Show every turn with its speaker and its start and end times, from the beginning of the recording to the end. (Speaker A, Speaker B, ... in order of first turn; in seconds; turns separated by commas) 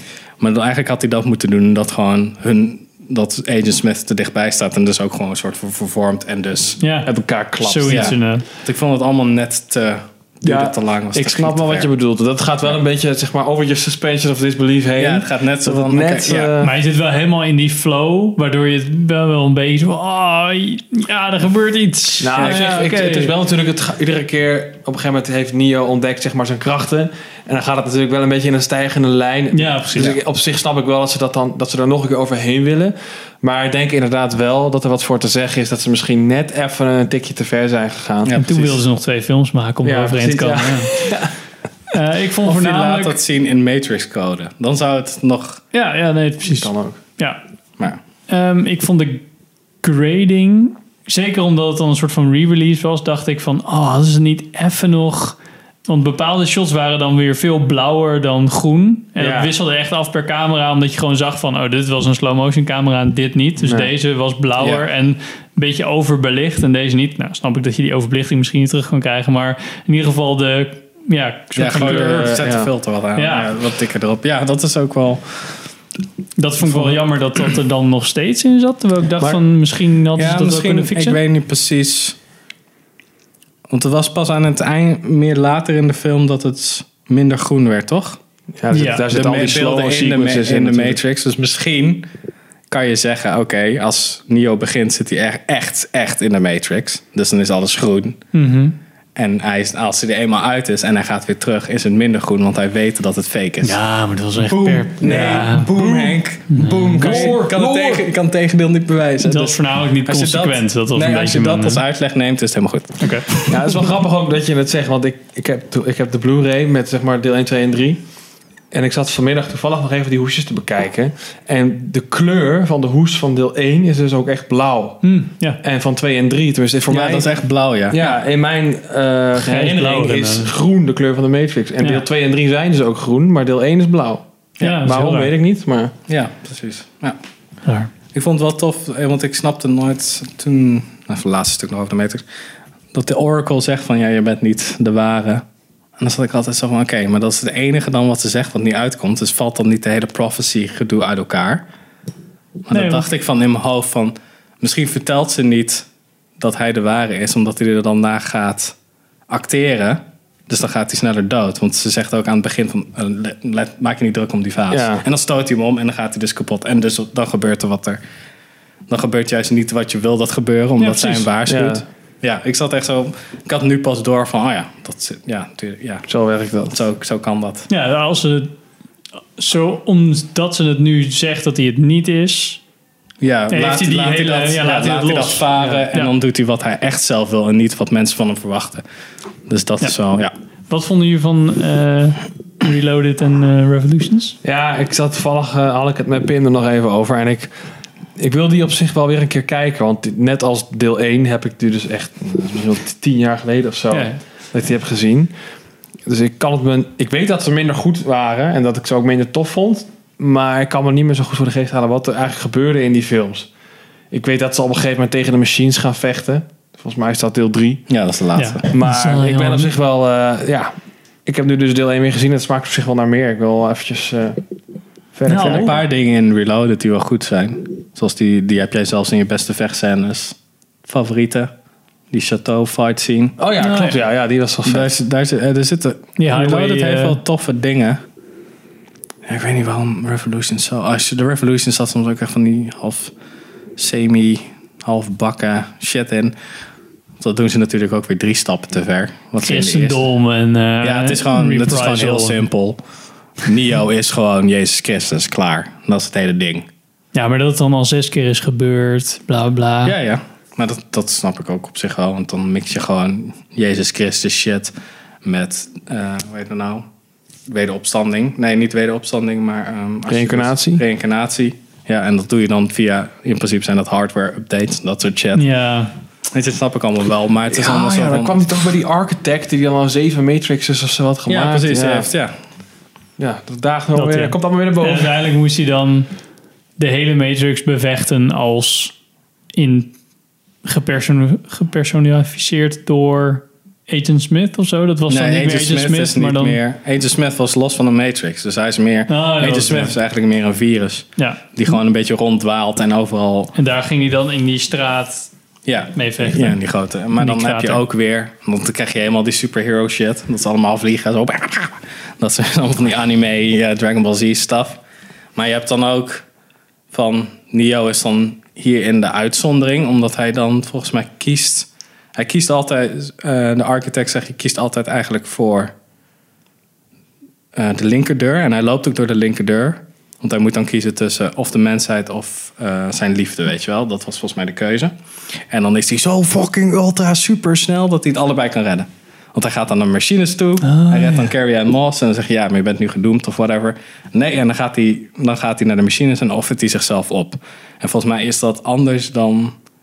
Speaker A: 0.4-6.8, Speaker B: 6.8-8.4, Speaker C: 7.0-8.1, Speaker A: 7.9-11.9, Speaker C: 10.4-16.7, Speaker A: 15.0-16.6, Speaker B: 16.6-23.3, Speaker C: 22.2-38.3, Speaker A: 22.4-22.7, Speaker B: 29.5-30.1, Speaker A: 38.2-38.8, Speaker B: 38.4-40.9, Speaker C: 39.8-41.3, Speaker B: 41.9-43.2, Speaker A: 42.4-45.6, Speaker B: 45.7-47.4, Speaker C: 46.5-47.0, Speaker B: 48.3-49.2, Speaker B: 49.8-72.4, Speaker C: 59.2-59.5, Speaker C: 63.6-63.9, Speaker A: 71.5-75.7, Speaker C: 71.7-72.7, Speaker B: 73.2-73.5, Speaker B: 76.4-81.2, Speaker A: 76.7-77.0, Speaker A: 80.2-82.2, Speaker A: 83.7-88.2, Speaker C: 88.6-91.0, Speaker B: 88.7-89.0, Speaker A: 89.1-92.1, Speaker A: 92.7-98.2, Speaker B: 98.3-98.8, Speaker A: 99.2-103.8, Speaker B: 103.6-105.7, Speaker A: 104.4-113.8, Speaker C: 105.0-108.1, Speaker B: 106.5-107.4, Speaker B: 109.2-111.8, Speaker B: 113.0-113.3, Speaker C: 113.5-118.0, Speaker C: 118.7-127.3, Speaker B: 125.0-125.6, Speaker A: 126.9-128.2, Speaker C: 127.9-134.2, Speaker B: 129.3-130.5, Speaker B: 134.6-135.3, Speaker C: 134.8-135.9, Speaker A: 136.1-137.2, Speaker B: 137.6-137.9, Speaker A: 138.1-142.2, Speaker A: 142.9-145.4, Speaker A: 146.0-151.7, Speaker A: 152.7-155.8, Speaker B: 152.7-153.1, Speaker A: 156.4-158.7, Speaker A: 159.3-168.0, Speaker C: 164.7-165.0, Speaker A: 168.9-176.1, Speaker B: 170.8-171.3, Speaker C: 171.4-171.8, Speaker C: 176.1-176.7, Speaker A: 176.7-177.7, Speaker B: 177.7-178.5, Speaker B: 179.4-182.6, Speaker A: 183.2-188.8, Speaker B: 183.5-186.1, Speaker C: 185.6-185.8, Speaker A: 189.5-190.3, Speaker B: 190.7-194.4, Speaker C: 194.4-197.5, Speaker C: 198.2-205.3, Speaker B: 203.9-204.2, Speaker C: 206.1-213.5, Speaker C: 214.1-217.8, Speaker A: 217.9-218.7, Speaker B: 218.3-219.7, Speaker C: 218.7-220.7, Speaker C: 221.2-224.4, Speaker C: 225.1-225.7, Speaker B: 225.3-225.8, Speaker A: 225.4-231.5, Speaker A: 232.1-233.3, Speaker C: 233.4-234.9, Speaker B: 233.6-234.0, Speaker A: 234.6-238.0, Speaker B: 236.2-237.2, Speaker A: 239.2-243.1, Speaker A: 243.8-246.3, Speaker A: 247.2-250.0, Speaker B: 249.4-252.4, Speaker A: 250.8-252.8, Speaker A: 253.4-256.6, Speaker B: 257.1-259.9, Speaker A: 259.8-264.7, Speaker A: 265.2-266.9, Speaker A: 267.5-275.5, Speaker C: 270.1-270.8, Speaker B: 275.4-275.9, Speaker A: 276.3-278.5, Speaker C: 277.5-282.1, Speaker A: 281.3-282.4, Speaker C: 283.2-285.1, Speaker B: 283.9-286.1, Speaker B: 286.8-288.9, Speaker B: 289.5-289.9, Speaker B: 290.6-296.6, Speaker A: 295.1-303.5, Speaker B: 299.1-299.9, Speaker B: 301.2-301.4, Speaker B: 303.6-305.3, Speaker A: 305.6-314.8, Speaker B: 305.9-306.6, Speaker B: 307.1-307.8, Speaker A: 315.4-316.2, Speaker A: 316.9-325.7, Speaker A: 327.5-349.6, Speaker B: 340.6-341.3